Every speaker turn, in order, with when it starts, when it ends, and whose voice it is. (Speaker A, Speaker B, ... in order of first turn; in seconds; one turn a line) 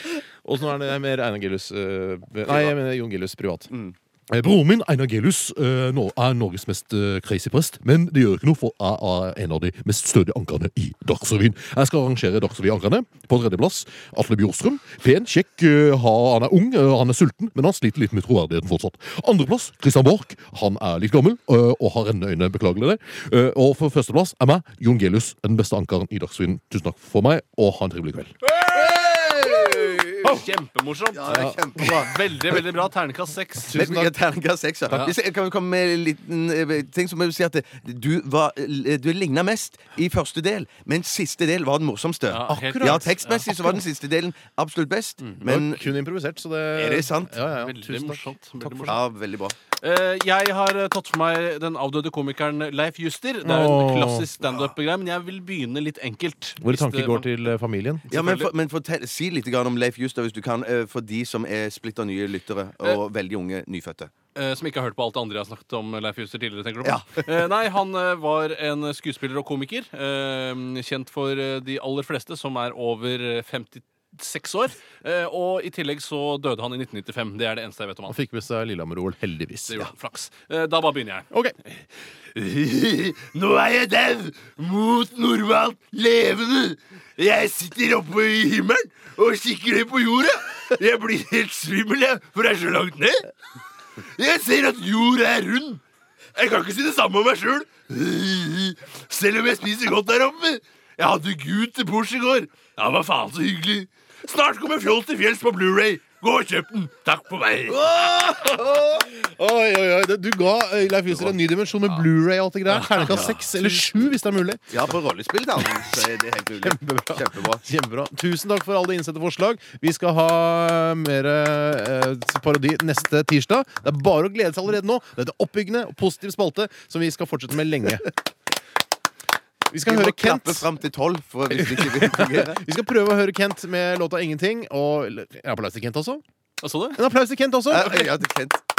Speaker A: 0.4-3.7
Speaker A: 4.3-28.4
Speaker B: 28.6-33.8
Speaker C: 29.4-30.0
Speaker C: 31.1-32.1
Speaker A: 31.3-32.0
Speaker A: 33.6-34.1
Speaker C: 33.7-45.9
Speaker B: 42.3-43.5
Speaker A: 42.5-43.7
Speaker A: 45.4-49.0
Speaker C: 46.8-47.3
Speaker B: 47.5-49.0
Speaker C: 48.9-49.5
Speaker B: 49.8-57.3
Speaker A: 53.4-54.3
Speaker A: 56.6-58.1
Speaker B: 58.1-58.5
Speaker C: 58.1-64.1
Speaker B: 64.3-78.2
Speaker C: 66.8-67.2
Speaker A: 78.1-79.9
Speaker B: 79.7-81.3
Speaker C: 82.3-93.2
Speaker C: 94.2-95.8
Speaker C: 96.4-106.4
Speaker B: 104.8-105.1
Speaker B: 106.4-108.3
Speaker C: 107.7-108.6
Speaker A: 108.3-114.8
Speaker B: 112.7-113.6
Speaker C: 113.0-113.5
Speaker C: 114.7-117.6
Speaker A: 116.6-128.2
Speaker A: 129.7-130.7
Speaker C: 129.8-132.6
Speaker A: 131.5-136.2
Speaker B: 136.6-137.0
Speaker A: 136.9-138.2
Speaker C: 137.7-138.6